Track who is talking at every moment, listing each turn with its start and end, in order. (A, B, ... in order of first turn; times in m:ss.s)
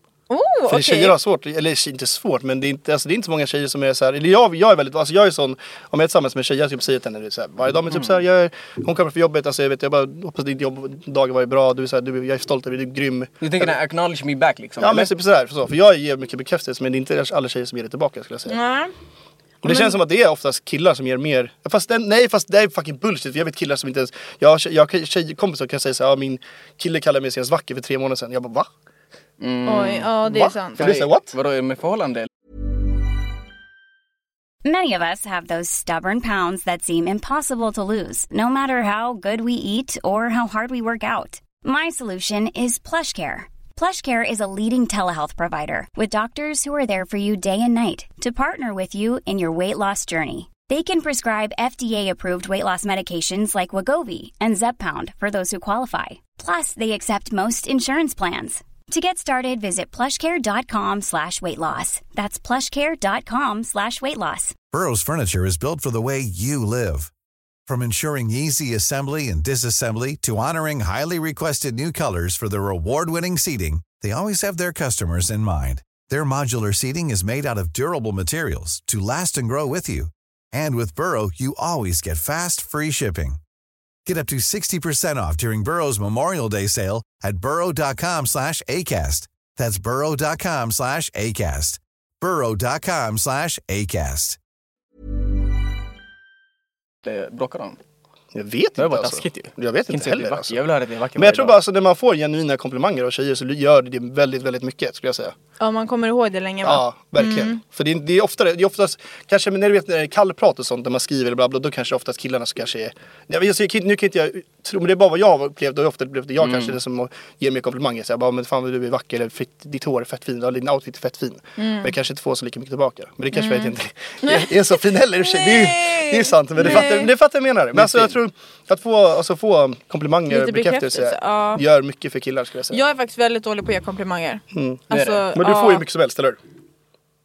0:00.3-0:01.2 A
0:00.7-0:13.7 B
0:13.4-0:15.1 C
0:14.8-0:18.6 B
0:18.5-0:18.9 A
0:19.6-0:28.7 B
0:19.6-0:20.0 A
0:29.4-0:30.1 C
0:29.7-0:30.9 A
0:30.2-0:31.3 B
0:30.8-0:32.3 C
0:34.6-1:04.6 D
1:04.7-1:07.1 E
1:07.7-1:23.4 E
1:24.1-1:34.4 E
1:37.0-1:37.8 C
1:38.3-1:40.6 B
1:38.8-1:41.6 C
1:41.2-1:45.4 B
1:45.6-1:47.6 A
1:46.6-2:12.8 B
1:56.4-1:56.8 C
2:01.6-2:01.9 A
2:03.3-2:07.1 A
2:07.7-2:08.2 C
2:10.3-2:11.6 A
2:12.7-2:15.8 A
2:14.5-2:16.4 B
2:14.9-2:15.3 C